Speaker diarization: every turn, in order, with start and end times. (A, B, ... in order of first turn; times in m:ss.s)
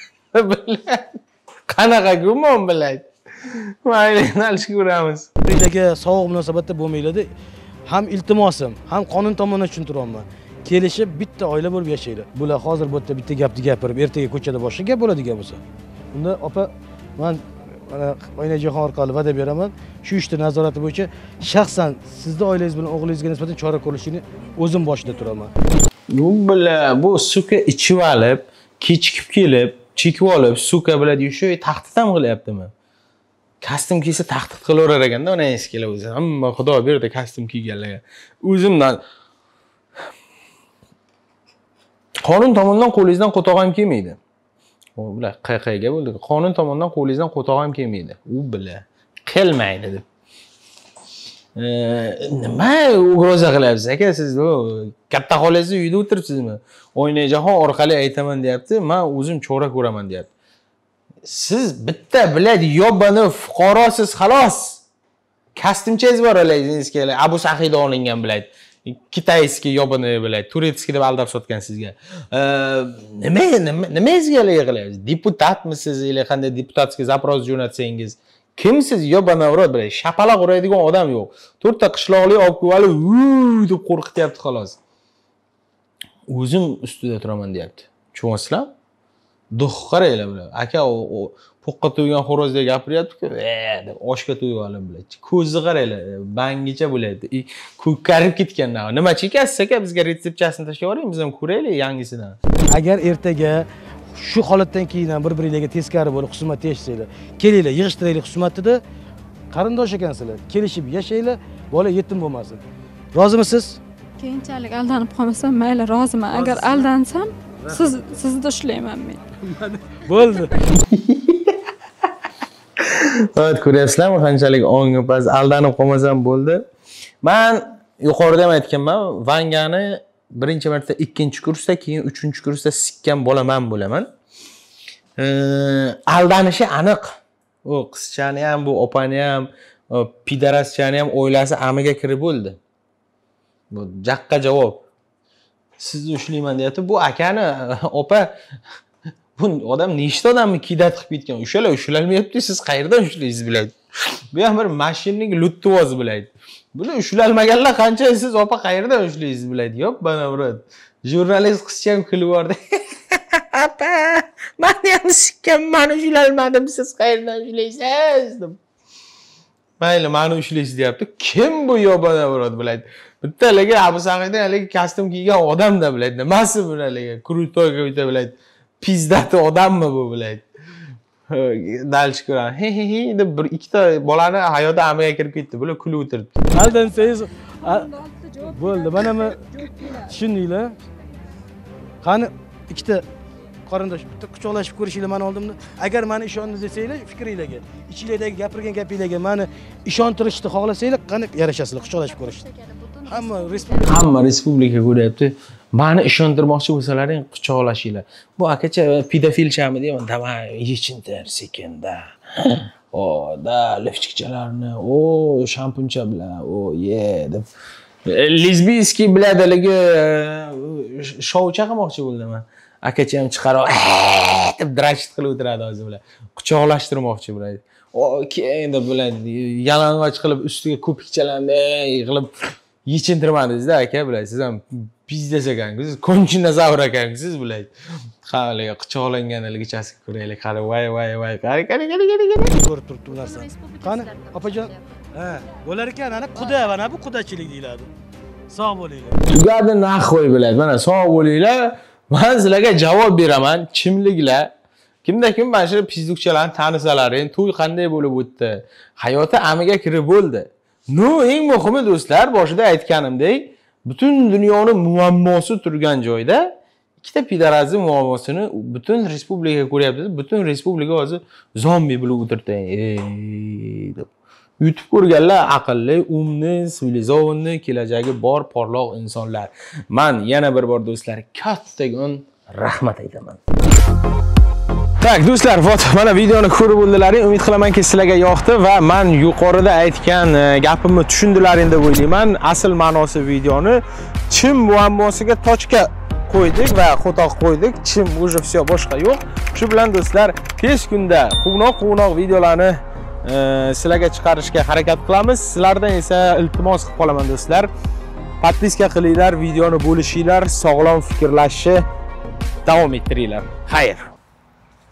0:00.3-0:05.3 A
0:05.5-0:07.3 B
0:07.9-0:15.6 B
0:16.1-0:25.5 B
0:26.1-0:32.7 A
0:33.6-0:39.0 A
0:42.2-0:44.2 A
0:45.0-0:50.0 A
0:51.6-1:00.3 A
1:01.2-1:04.8 A
1:05.6-1:24.8 A
1:26.3-1:28.7 A
1:29.5-1:42.4 A
1:42.7-1:48.8 B
1:49.5-1:52.6 B
1:53.1-1:53.8 B
1:54.2-1:59.2 C
1:56.3-1:56.9 B
1:57.6-1:58.1 B
1:59.4-2:00.6 B
2:00.8-2:01.6 A
2:02.8-2:06.6 A
2:07.2-2:14.1 A
2:15.2-2:22.6 A
2:23.7-2:24.8 A
2:25.8-2:28.3 A
2:29.4-2:33.8 A
2:34.3-2:48.6 A
2:49.8-3:00.4 A
3:01.3-3:06.5 A
3:06.5-3:10.8 B
3:07.6-3:10.2 C
3:12.0-3:13.0 B
3:13.7-3:22.5 B
3:21.8-3:24.1 C
3:23.0-3:24.1 B
3:23.8-3:37.5 A
3:38.1-3:57.7 A
3:58.2-4:02.5 A
4:02.4-4:07.9 B
4:03.1-4:04.8 C
4:08.5-4:09.2 B
4:09.3-4:14.5 A
4:15.0-4:34.1 A
4:34.6-4:43.4 A
4:45.0-5:07.7 A
5:08.4-5:11.8 A
5:12.6-5:14.2 A